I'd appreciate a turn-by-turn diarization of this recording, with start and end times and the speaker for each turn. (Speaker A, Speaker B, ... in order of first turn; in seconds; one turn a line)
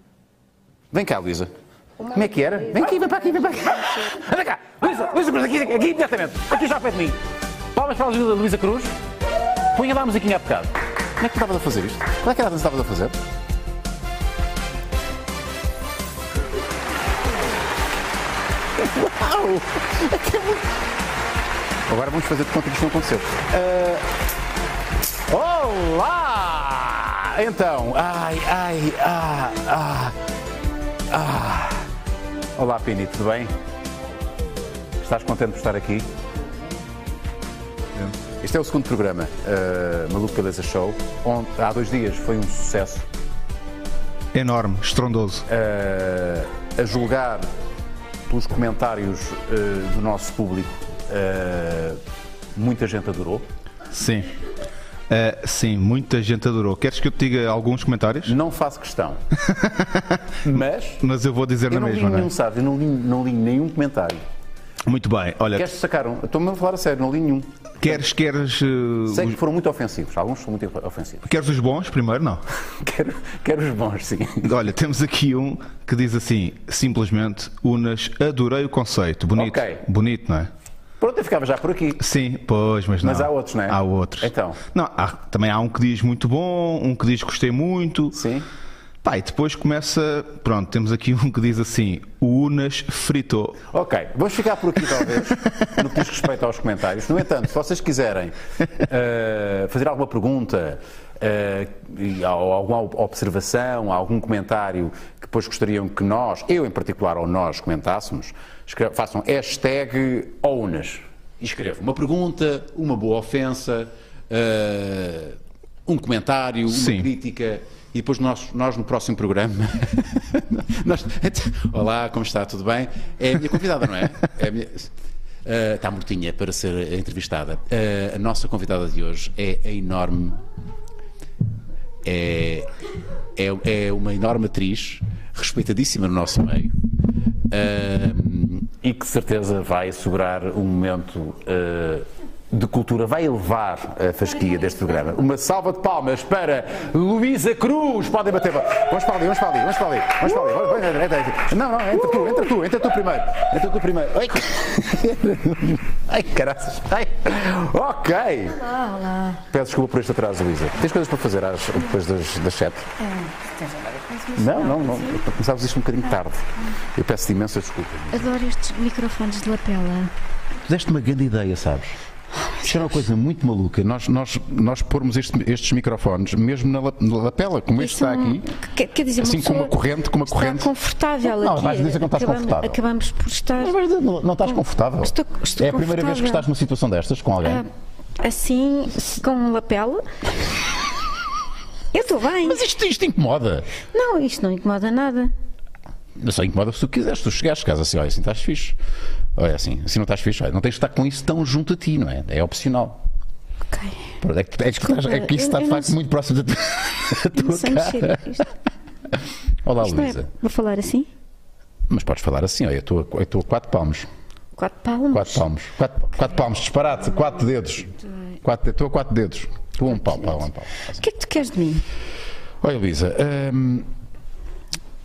Speaker A: 0.9-1.5
Speaker A: 2.0-7.2
Speaker A: 7.7-8.9
Speaker A: 9.7-13.2
Speaker A: 18.7-20.7
Speaker A: 21.9-24.0
Speaker A: 25.3-30.2
Speaker A: 31.1-31.9
Speaker A: 32.5-33.5
Speaker A: 35.0-36.1
Speaker A: 38.4-43.1
Speaker B: 44.3-45.5
Speaker A: 45.5-47.5
Speaker A: 48.3-52.0
Speaker A: 52.5-53.5
Speaker B: 53.9-54.3
Speaker B: 55.1-58.3
Speaker A: 58.2-59.2
Speaker B: 59.4-60.4
Speaker A: 60.4-61.0
Speaker B: 61.0-62.3
Speaker A: 61.7-64.2
Speaker B: 64.8-65.7
Speaker A: 65.5-68.0
Speaker B: 67.8-69.4
Speaker A: 69.1-71.3
Speaker B: 71.3-72.4
Speaker A: 72.8-74.5
Speaker B: 74.4-80.5
Speaker A: 79.3-79.8
Speaker A: 81.0-82.0
Speaker B: 82.0-88.2
Speaker A: 83.0-84.6
Speaker A: 88.1-88.5
Speaker B: 89.0-93.6
Speaker A: 93.7-124.9
Speaker B: 116.7-117.1
Speaker A: 125.4-130.4
Speaker A: 132.0-132.7
Speaker A: 133.3-136.7
Speaker A: 137.4-158.7
Speaker C: 158.7-159.4
Speaker A: 159.4-162.9
Speaker C: 163.0-165.2
Speaker A: 164.3-168.3
Speaker C: 168.1-170.1
Speaker A: 170.6-172.0
Speaker A: 172.6-178.5
Speaker C: 177.8-183.8
Speaker A: 179.2-180.7
Speaker A: 181.2-182.8
Speaker A: 183.6-187.6
Speaker C: 184.5-186.4
Speaker C: 187.4-187.7
Speaker C: 188.2-190.0
Speaker C: 191.9-192.6
Speaker A: 192.4-193.7
Speaker C: 193.9-195.3
Speaker A: 196.2-198.8
Speaker A: 199.3-203.0
Speaker C: 203.7-204.1
Speaker A: 204.2-208.3
Speaker C: 204.8-205.9
Speaker C: 207.3-208.5
Speaker A: 209.6-210.3
Speaker C: 209.8-211.1
Speaker A: 211.9-214.1
Speaker C: 214.6-215.4
Speaker A: 215.1-221.0
Speaker C: 221.0-221.8
Speaker A: 222.6-223.9